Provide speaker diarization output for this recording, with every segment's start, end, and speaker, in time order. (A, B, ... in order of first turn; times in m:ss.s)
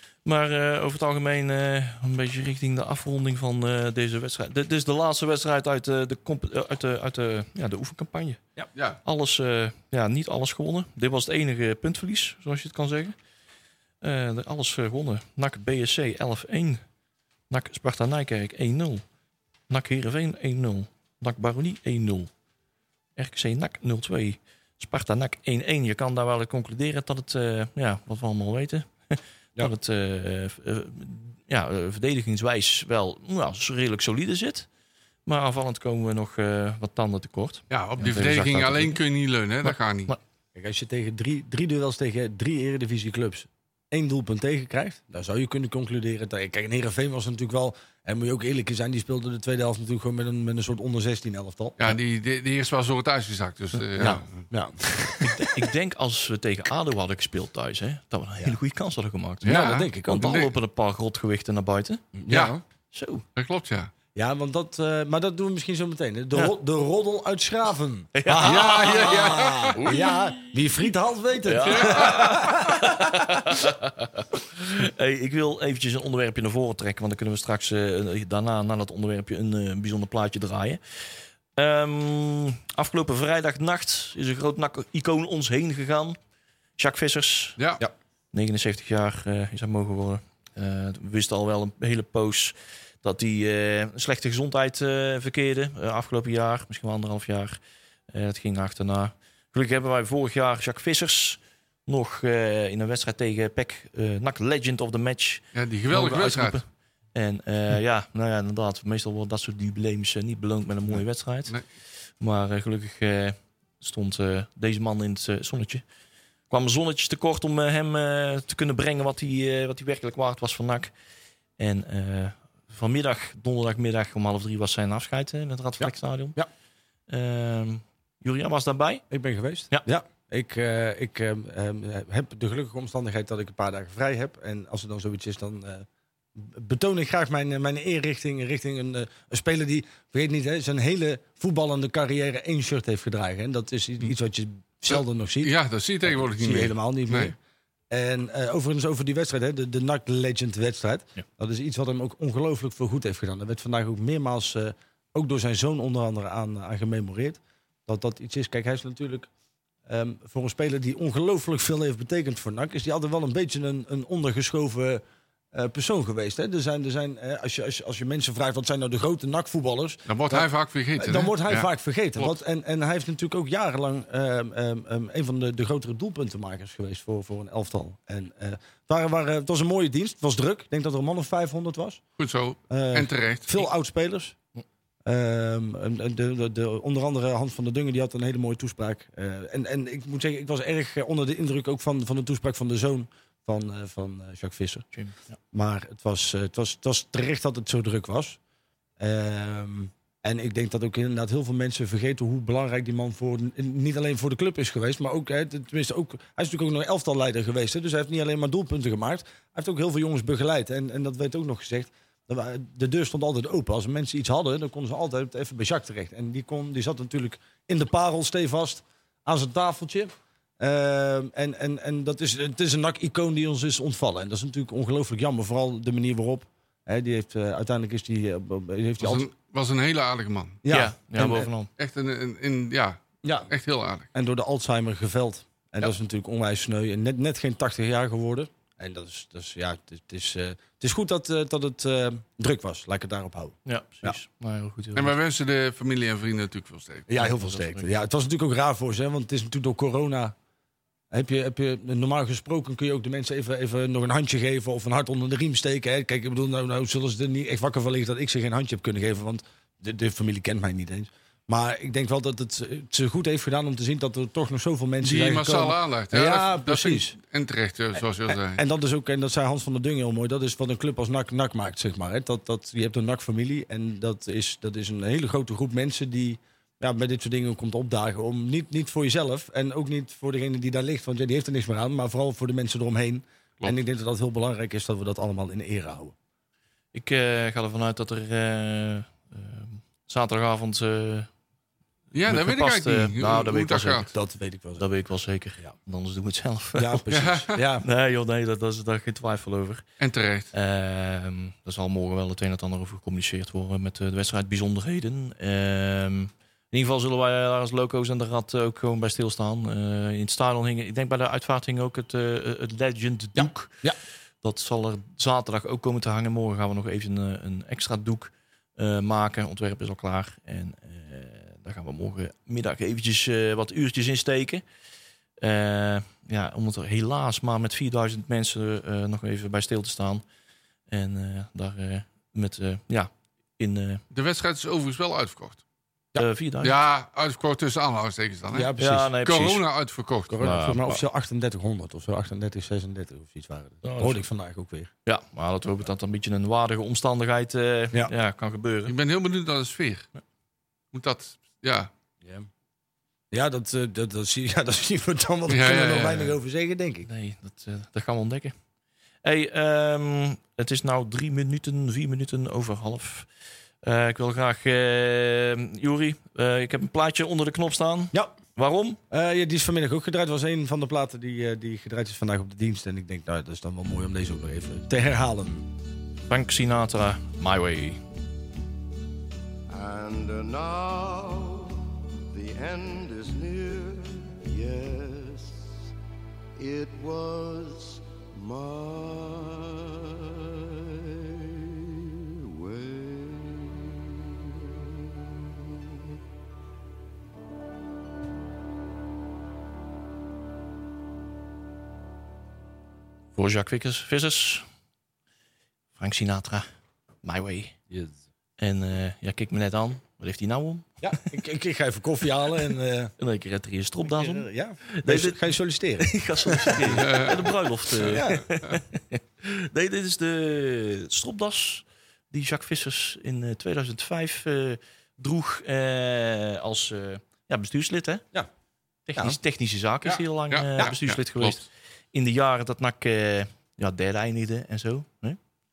0:00.2-0:08.4 A
0:09.0-0:13.2 A
0:14.0-0:16.8 A
0:17.5-0:19.0 A
0:19.7-0:22.3 A
0:23.2-0:34.7 A
0:35.2-0:39.0 A
0:37.7-0:40.1 B
0:40.5-0:51.9 C
0:51.8-0:54.2 B
0:54.0-0:55.6 C
0:55.2-1:02.1 A
0:59.4-1:00.5 C
0:59.4-1:00.5 B
1:02.1-1:02.6 C
1:02.9-1:03.2 A
1:03.4-1:03.9 B
1:04.1-1:13.1 C
1:08.1-1:10.5 A
1:08.4-1:09.9 B
1:11.4-1:26.2 A
1:11.7-1:12.2 B
1:26.8-1:27.6 A
1:27.6-1:27.8 B
1:28.3-1:51.6 A
1:45.5-1:46.6 B
1:52.2-1:55.8 A
1:56.5-2:00.9 A
2:01.6-2:06.4 A
2:05.8-2:06.5 C
2:07.1-2:09.0 A
2:09.1-2:25.5 C
2:25.4-2:27.3 B
2:26.0-2:27.4 C
2:27.9-2:39.3 C
2:39.8-3:02.0 C
2:50.1-2:52.3 B
3:02.2-3:03.6 B
3:02.7-3:04.4 C
3:05.0-3:14.9 C
3:15.5-3:18.4 C
3:19.0-3:49.3 C
3:49.0-3:50.6 B
3:50.6-3:51.5 C
3:50.7-3:51.7 A
3:51.8-3:54.1 B
3:53.2-3:53.5 C
3:54.1-4:04.2 C
4:03.6-4:05.1 A
4:04.9-4:07.1 B
4:07.1-4:10.3 C
4:07.2-4:07.9 A
4:11.1-4:27.1 C
4:25.0-4:28.6 B
4:28.3-4:46.1 C
4:46.9-4:51.3 A
4:52.1-4:54.1 B
4:52.3-4:54.1 A
4:54.1-4:54.8 C
4:54.8-4:57.1 A
4:56.8-4:57.9 C
4:57.1-4:57.6 B
4:57.8-4:59.8 A
5:00.0-5:00.5 B
5:00.5-5:13.8 A
5:13.4-5:14.0 C
5:14.4-5:24.6 A
5:25.4-5:30.2 A
5:30.9-5:34.0 A
5:34.1-5:35.6 B
5:36.2-5:36.8 A
5:36.6-5:38.7 B
5:38.5-5:39.1 C
5:38.8-5:39.6 A
5:39.2-5:40.4 B
5:40.3-5:44.9 C
5:40.4-5:40.9 A
5:43.8-5:44.2 A
5:45.0-5:48.9 A
5:48.9-5:50.1 B
5:50.9-5:51.9 B
5:53.3-5:57.1 C
5:55.5-5:56.3 B
5:57.1-5:58.5 A
5:59.2-6:03.3 A
6:03.8-6:09.0 A
6:09.1-6:15.7 C
6:16.3-6:18.0 A
6:19.7-6:25.8 D
6:26.6-6:34.9 D
6:43.3-6:44.7 A
6:46.0-6:46.7 A
6:47.2-6:47.8 A
6:48.6-6:50.9 A
6:51.0-6:53.1 C
6:53.2-6:55.4 A
6:54.1-6:57.0 C
6:56.0-7:08.2 A
6:57.0-6:57.4 B
6:58.0-6:58.4 C
7:09.1-7:15.4 A
7:10.1-7:11.6 B